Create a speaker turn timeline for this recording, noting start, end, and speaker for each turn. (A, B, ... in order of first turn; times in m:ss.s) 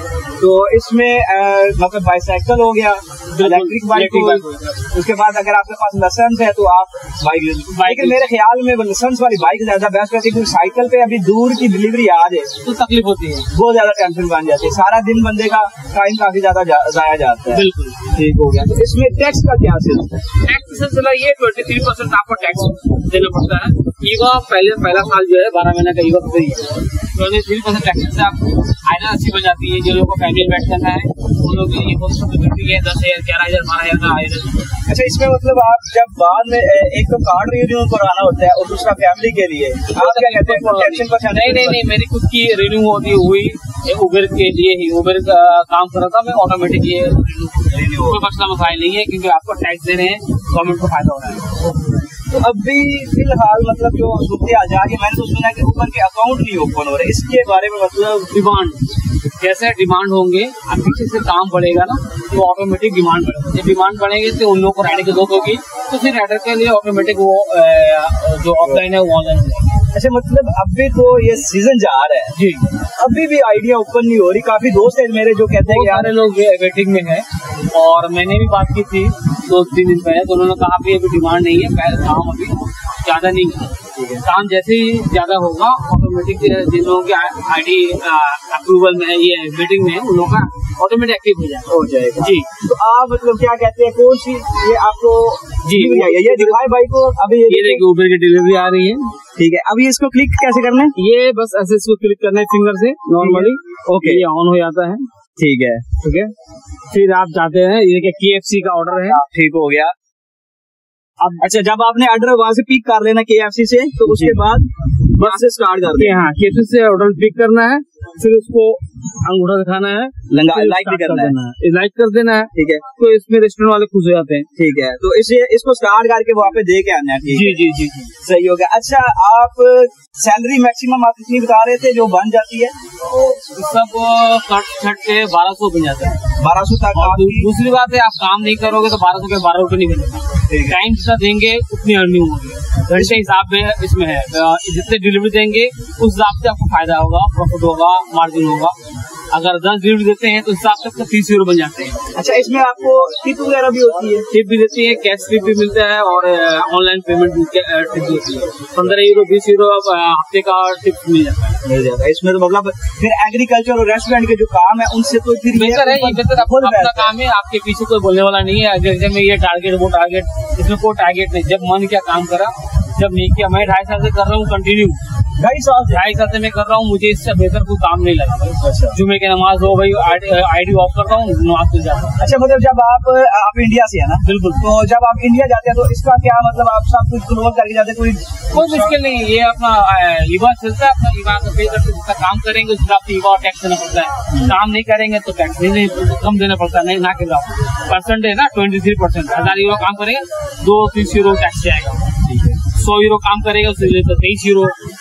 0:00.4-0:12.5 A
0:03.3-0:04.8 B
0:07.7-0:08.3 B
0:12.6-0:13.5 B
0:13.5-0:20.2 A
0:17.5-0:18.0 B
0:20.4-0:34.7 B
0:34.9-0:41.9 A
0:39.9-0:51.6 B
0:47.7-0:48.2 A
0:52.3-0:58.3 A
0:58.3-0:58.8 B
0:59.4-1:09.8 B
1:09.9-1:12.4 A
1:12.4-1:12.7 B
1:13.0-1:16.2 A
1:15.6-1:32.5 B
1:24.0-1:24.2 A
1:31.7-1:37.8 A
1:35.6-1:36.6 B
1:37.5-1:39.1 B
1:39.4-1:41.0 A
1:41.0-1:45.1 B
1:43.2-1:44.2 A
1:45.4-1:45.9 A
1:46.0-1:46.3 B
1:46.9-1:49.2 B
1:49.1-1:49.9 A
1:51.4-1:56.2 A
1:54.1-1:54.5 B
1:55.1-2:04.5 B
2:00.3-2:01.4 A
2:02.5-2:02.8 A
2:04.6-2:07.6 A
2:07.3-2:08.1 B
2:08.2-2:12.8 A
2:13.1-2:16.2 B
2:16.4-2:17.5 A
2:16.9-2:28.8 B
2:20.5-2:20.8 A
2:22.9-2:23.2 A
2:29.3-2:32.0 B
2:32.2-2:34.3 A
2:34.3-2:41.6 B
2:41.6-2:47.1 A
2:45.5-2:55.0 B
2:55.4-2:56.0 A
2:55.9-3:02.2 B
2:58.6-2:59.0 A
3:02.2-3:08.9 A
3:04.2-3:04.7 B
3:08.5-3:22.1 B
3:14.3-3:14.6 A
3:22.2-3:22.6 A
3:22.7-3:24.8 B